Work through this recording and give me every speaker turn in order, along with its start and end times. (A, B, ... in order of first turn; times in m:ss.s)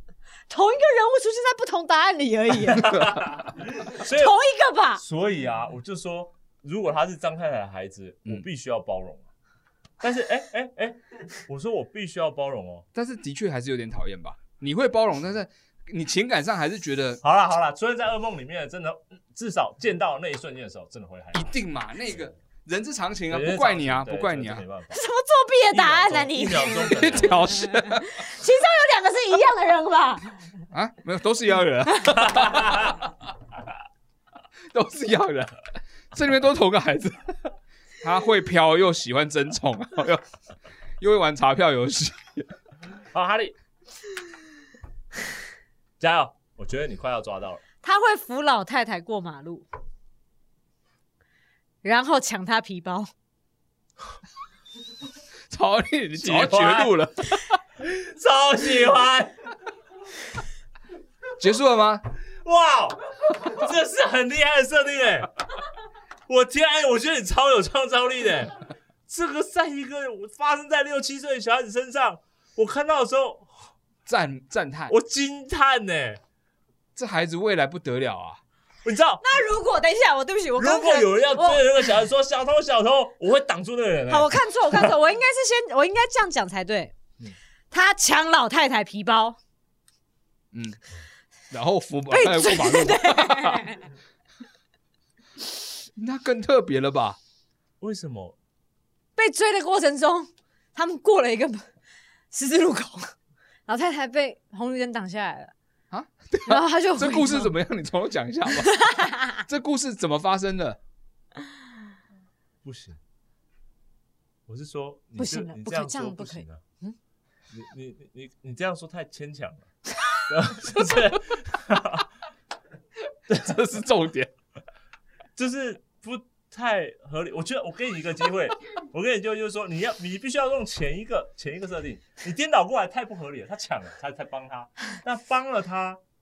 0:00.5-0:03.1 A
0:02.8-0:04.4 B
0:03.9-0:05.0 A
0:05.0-0:09.3 B
0:10.0-0:12.8 B
0:12.9-0:17.2 C
0:17.2-0:21.5 B
0:21.3-0:24.6 C
0:23.3-0:25.0 B
0:24.9-0:30.3 A
0:25.7-0:27.4 B
0:26.9-0:28.2 C
0:30.7-0:32.9 C
0:32.3-0:32.9 B
0:34.7-0:35.6 C
0:36.1-0:40.2 C
0:41.0-0:42.5 C
0:43.1-0:43.5 B
0:46.0-0:47.6 B
0:47.8-0:49.6 A
0:51.8-0:53.1 A
0:55.5-0:57.6 C
0:56.2-0:56.9 B
0:57.8-0:59.4 B
1:01.4-1:02.0 C
1:02.4-1:05.3 B
1:06.3-1:13.5 B
1:14.0-1:14.9 C
1:14.9-1:16.2 B
1:17.0-1:18.4 C
1:18.8-1:19.2 B
1:19.2-1:21.8 A
1:20.6-1:24.9 B
1:24.1-1:26.9 A
1:27.7-1:29.4 A
1:30.5-1:30.8 C
1:31.5-1:33.6 C
1:32.1-1:33.9 A
1:36.0-1:37.2 C
1:37.8-1:38.4 B
1:39.2-1:41.6 A
1:42.3-1:43.1 A
1:43.7-1:45.5 A
1:45.9-1:48.8 C
1:46.5-1:47.5 A
1:48.5-1:49.4 A
1:49.4-1:50.8 C
1:52.6-1:53.0 B
1:54.5-1:56.6 B
1:55.2-1:57.0 A
1:57.5-1:59.7 B
2:00.3-2:02.1 B
2:03.3-2:04.3 C
2:05.4-2:16.0 B